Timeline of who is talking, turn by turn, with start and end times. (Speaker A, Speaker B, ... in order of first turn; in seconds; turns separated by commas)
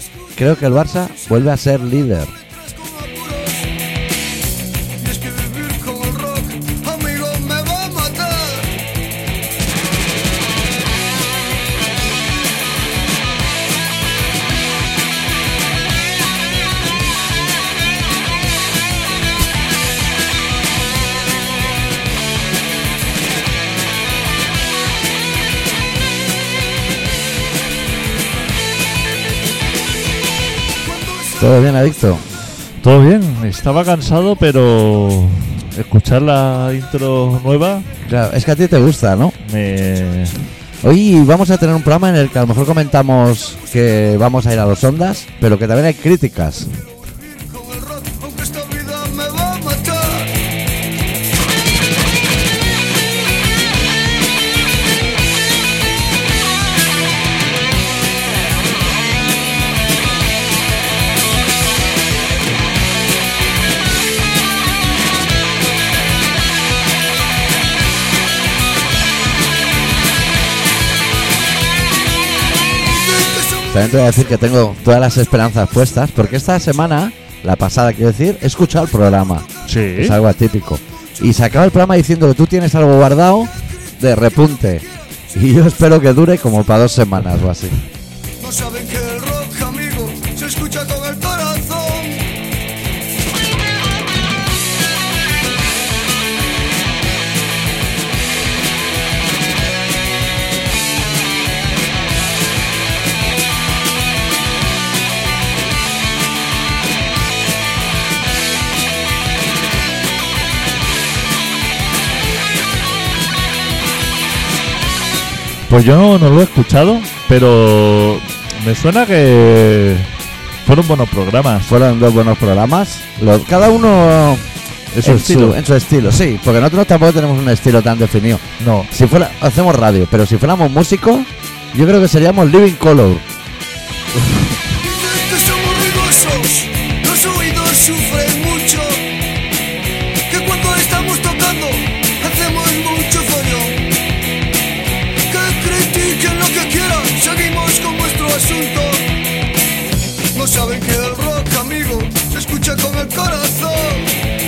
Speaker A: 0.3-2.3, Speaker B: 2.4-3.7, Speaker B: 5.0-8.8, Speaker B: 30.9-31.5, Speaker A: 31.4-32.2, Speaker C: 32.8-37.9, Speaker A: 38.0-39.4, Speaker C: 39.4-40.4, Speaker A: 40.8-46.7, Speaker B: 46.9-50.4, Speaker B: 72.8-74.2, Speaker A: 73.7-87.8, Speaker C: 79.6-80.2, Speaker B: 88.4-92.3, Speaker C: 115.7-120.1, Speaker C: 120.6-121.7, Speaker A: 121.7-133.2, Speaker C: 125.0-125.6, Speaker C: 128.6-128.9, Speaker B: 134.8-139.2, Speaker B: 140.3-143.9, Speaker B: 145.3-149.2, Speaker B: 150.3-154.1